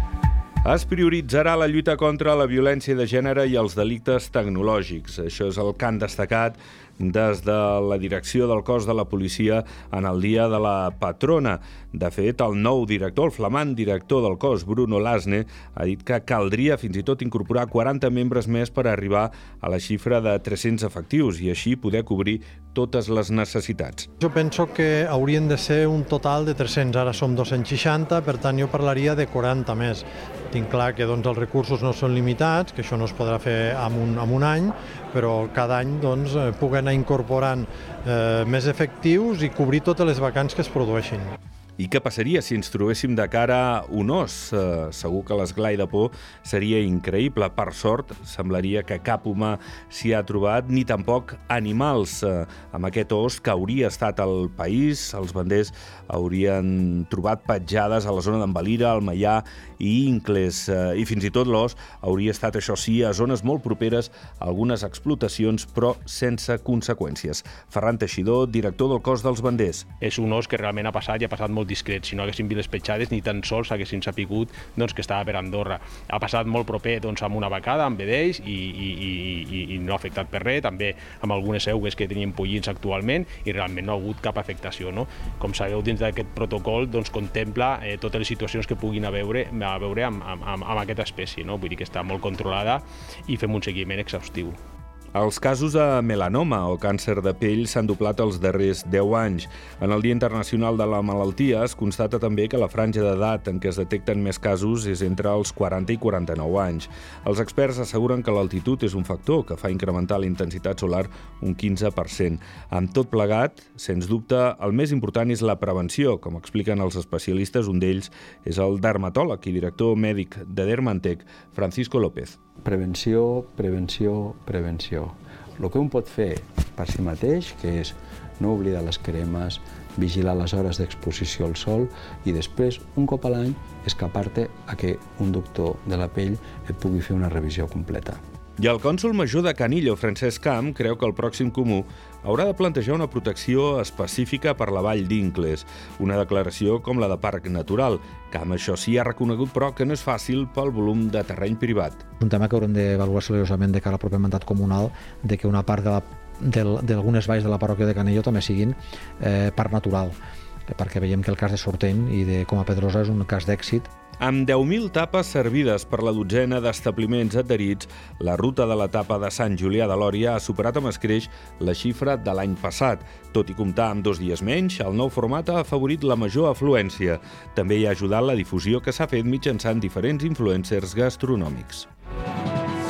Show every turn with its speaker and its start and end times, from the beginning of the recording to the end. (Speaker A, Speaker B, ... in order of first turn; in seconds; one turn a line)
Speaker A: 0.6-24.1
Speaker B: 24.2-41.3
Speaker A: 41.8-69.9
Speaker C: 70.0-94.6
Speaker A: 95.1-122.4
Speaker D: 122.6-138.2
Speaker A: 138.6-152.1
Speaker E: 152.2-160.2
Speaker E: 160.7-163.9
Speaker A: 164.2-181.9